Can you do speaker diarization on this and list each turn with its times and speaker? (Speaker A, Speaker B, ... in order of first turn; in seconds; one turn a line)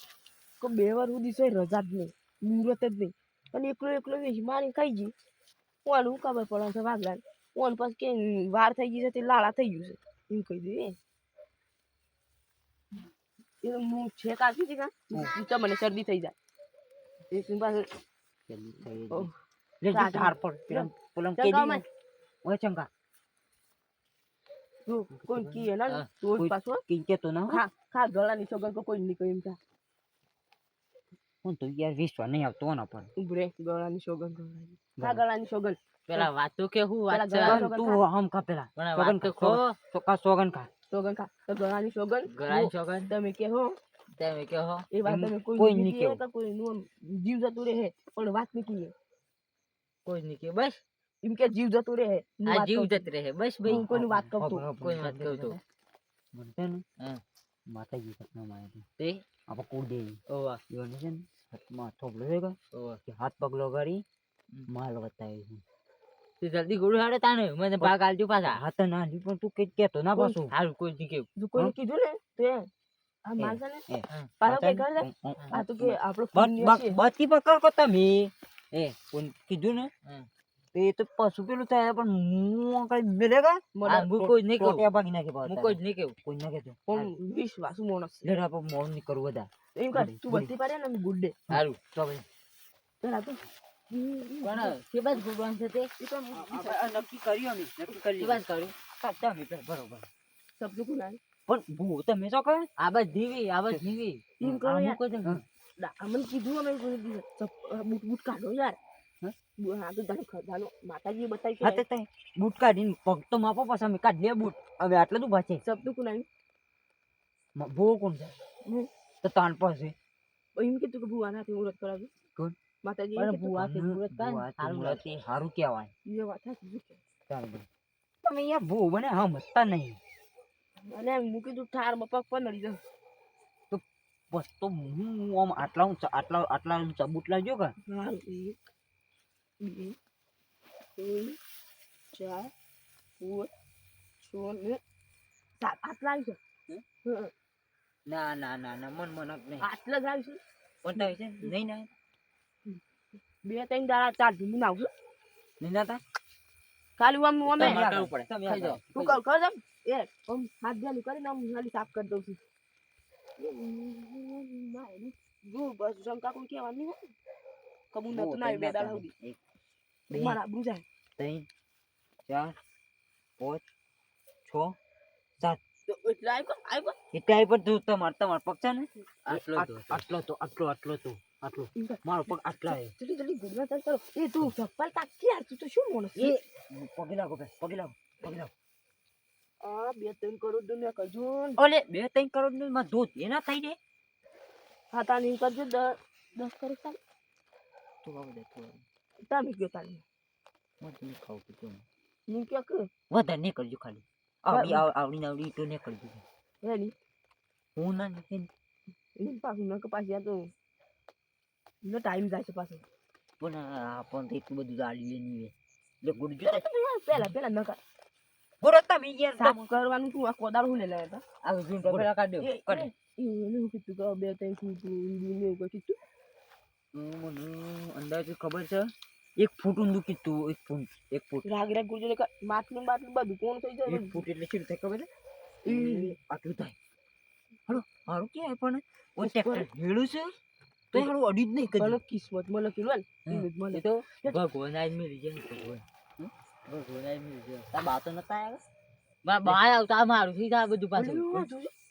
Speaker A: 0.6-5.1
Speaker A: 5.8-11.0
Speaker A: 13.6-16.3
Speaker A: 17.3-17.9
Speaker B: 18.5-19.3
Speaker B: 19.8-21.8
Speaker A: 19.9-21.8
Speaker B: 22.4-22.9
Speaker A: 24.9-26.8
Speaker B: 25.1-25.7
Speaker B: 26.4-27.6
Speaker A: 27.5-29.6
Speaker B: 31.4-33.1
Speaker A: 33.1-36.3
Speaker B: 35.0-35.2
Speaker C: 36.1-37.6
Speaker A: 37.1-38.0
Speaker B: 37.4-40.7
Speaker C: 38.8-39.8
Speaker A: 40.9-43.7
Speaker C: 42.3-43.1
Speaker C: 44.2-44.9
Speaker A: 44.9-48.9
Speaker B: 45.0-46.2
Speaker C: 50.0-50.8
Speaker A: 51.2-53.1
Speaker C: 52.5-53.9
Speaker B: 53.6-55.6
Speaker A: 53.6-54.6
Speaker C: 54.8-55.6
Speaker B: 56.3-56.8
Speaker B: 57.7-58.8
Speaker C: 59.0-59.2
Speaker B: 59.5-64.0
Speaker C: 60.3-60.6
Speaker C: 62.7-63.0
Speaker B: 64.7-65.6
Speaker C: 66.4-68.6
Speaker B: 68.5-70.5
Speaker C: 70.5-71.3
Speaker A: 71.4-72.7
Speaker A: 73.2-73.8
Speaker B: 73.4-79.9
Speaker A: 74.4-77.0
Speaker B: 80.7-87.1
Speaker A: 83.7-84.1
Speaker C: 83.9-84.8
Speaker C: 85.5-86.2
Speaker A: 86.9-88.3
Speaker B: 88.2-90.5
Speaker A: 89.7-91.4
Speaker B: 91.5-92.2
Speaker C: 91.5-91.8
Speaker A: 93.0-94.8
Speaker C: 94.4-95.9
Speaker A: 96.0-97.0
Speaker B: 96.3-100.1
Speaker C: 98.2-98.7
Speaker A: 100.6-101.2
Speaker B: 101.5-102.7
Speaker C: 102.8-105.4
Speaker A: 104.4-105.0
Speaker A: 105.8-108.8
Speaker A: 109.6-111.8
Speaker B: 111.6-115.6
Speaker A: 115.6-116.3
Speaker B: 117.5-118.3
Speaker B: 119.2-119.9
Speaker A: 120.6-122.1
Speaker A: 122.8-123.6
Speaker C: 123.2-125.0
Speaker B: 123.5-125.9
Speaker A: 126.0-127.0
Speaker B: 127.3-127.7
Speaker B: 128.2-130.0
Speaker A: 130.9-132.8
Speaker B: 133.7-137.7
Speaker A: 137.8-138.6
Speaker A: 139.6-139.9
Speaker A: 141.0-141.4
Speaker A: 142.1-142.5
Speaker A: 143.2-143.5
Speaker A: 144.2-144.8
Speaker A: 145.6-146.4
Speaker A: 147.0-147.3
Speaker B: 148.1-149.7
Speaker A: 149.6-150.4
Speaker B: 150.8-151.9
Speaker A: 153.4-154.9
Speaker B: 155.6-156.0
Speaker A: 157.0-157.8
Speaker B: 157.5-159.2
Speaker C: 157.6-158.8
Speaker A: 158.9-162.4
Speaker A: 163.4-167.1
Speaker A: 167.9-169.1
Speaker B: 168.1-169.4
Speaker A: 170.1-170.8
Speaker B: 170.1-170.4
Speaker B: 171.2-171.5
Speaker B: 172.3-172.5
Speaker B: 173.4-173.6
Speaker B: 174.4-174.8
Speaker A: 175.9-177.0
Speaker B: 177.1-182.9
Speaker C: 179.3-180.0
Speaker A: 181.8-182.0
Speaker A: 182.7-186.3
Speaker B: 186.2-188.5
Speaker A: 189.6-191.6
Speaker B: 191.6-193.8
Speaker A: 194.9-197.0
Speaker B: 198.0-198.8
Speaker A: 199.3-200.0
Speaker B: 200.8-201.8
Speaker A: 202.3-202.9
Speaker B: 203.1-206.2
Speaker A: 204.5-204.8
Speaker A: 206.6-206.9
Speaker B: 207.8-208.5
Speaker A: 209.2-210.5
Speaker A: 211.8-212.8
Speaker B: 213.4-216.6
Speaker A: 216.4-217.8
Speaker B: 218.6-219.6
Speaker A: 219.4-221.2
Speaker C: 221.4-222.5
Speaker B: 221.8-222.1
Speaker A: 222.4-226.0
Speaker B: 222.6-222.9
Speaker B: 226.9-231.4
Speaker A: 231.4-234.2
Speaker B: 233.9-235.1
Speaker A: 235.6-236.2
Speaker B: 235.7-236.8
Speaker B: 237.7-240.3
Speaker A: 239.2-239.7
Speaker B: 240.9-242.0
Speaker A: 241.8-244.3
Speaker C: 243.7-245.8
Speaker B: 246.2-247.1
Speaker C: 246.8-247.7
Speaker B: 247.7-248.6
Speaker C: 249.2-251.5
Speaker A: 250.9-251.7